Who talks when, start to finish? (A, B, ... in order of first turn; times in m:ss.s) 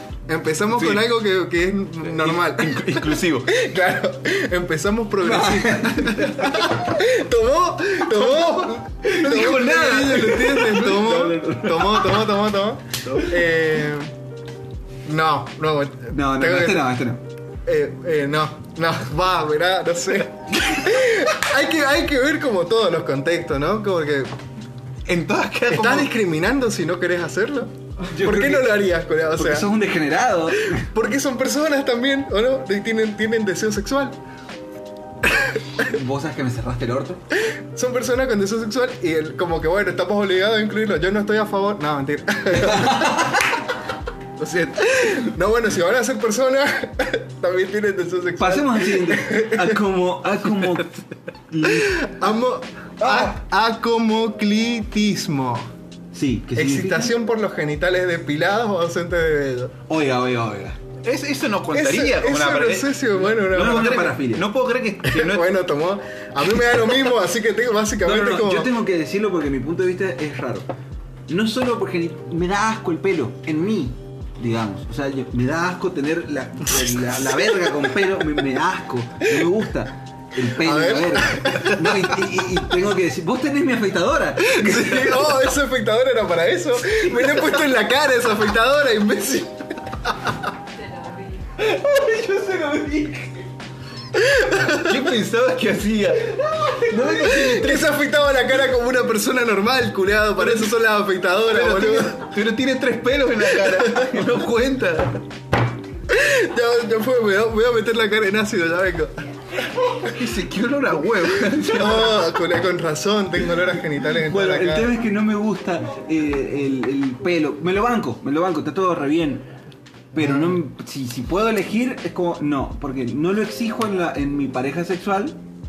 0:00.3-0:14.1 A
0:00.8-0:01.1 B
0:02.1-0:03.5 B
0:05.2-0:06.6 C
0:09.1-0:12.2 C
0:09.1-0:10.9 B
0:13.1-0:13.3 B
0:15.1-0:16.9 A
0:16.1-0:17.2 C
0:17.6-0:24.3 A
0:25.1-0:26.1 B
0:25.7-0:29.7 A
0:28.1-0:30.8 C
0:30.7-0:34.2 A
0:35.2-0:35.8 A
0:35.8-0:37.2 C
0:37.5-0:43.4 A
0:42.6-0:43.4 C
0:44.4-0:49.8 A
0:48.4-0:52.1 C
0:51.6-0:55.7 A
0:56.1-0:57.2 C
0:56.6-0:59.7 A
0:59.9-1:00.8 C
1:01.0-1:05.5 B
1:01.7-1:04.1 A
1:03.5-1:04.5 C
1:05.0-1:08.7 A
1:08.0-1:10.7 C
1:11.3-1:25.5 C
1:16.8-1:17.9 A
1:20.4-1:22.3 A
1:24.4-1:30.4 A
1:27.1-1:27.4 C
1:31.0-1:33.5 C
1:34.1-1:35.1 A
1:34.7-1:36.4 B
1:36.2-1:37.9 C
1:37.0-1:42.3 A
1:41.5-1:45.2 B
1:43.4-1:44.3 A
1:46.1-1:49.1 A
1:49.7-1:52.3 B
1:51.5-1:54.9 A
1:54.2-1:59.5 C
2:00.1-2:05.4 C
2:00.2-2:00.6 A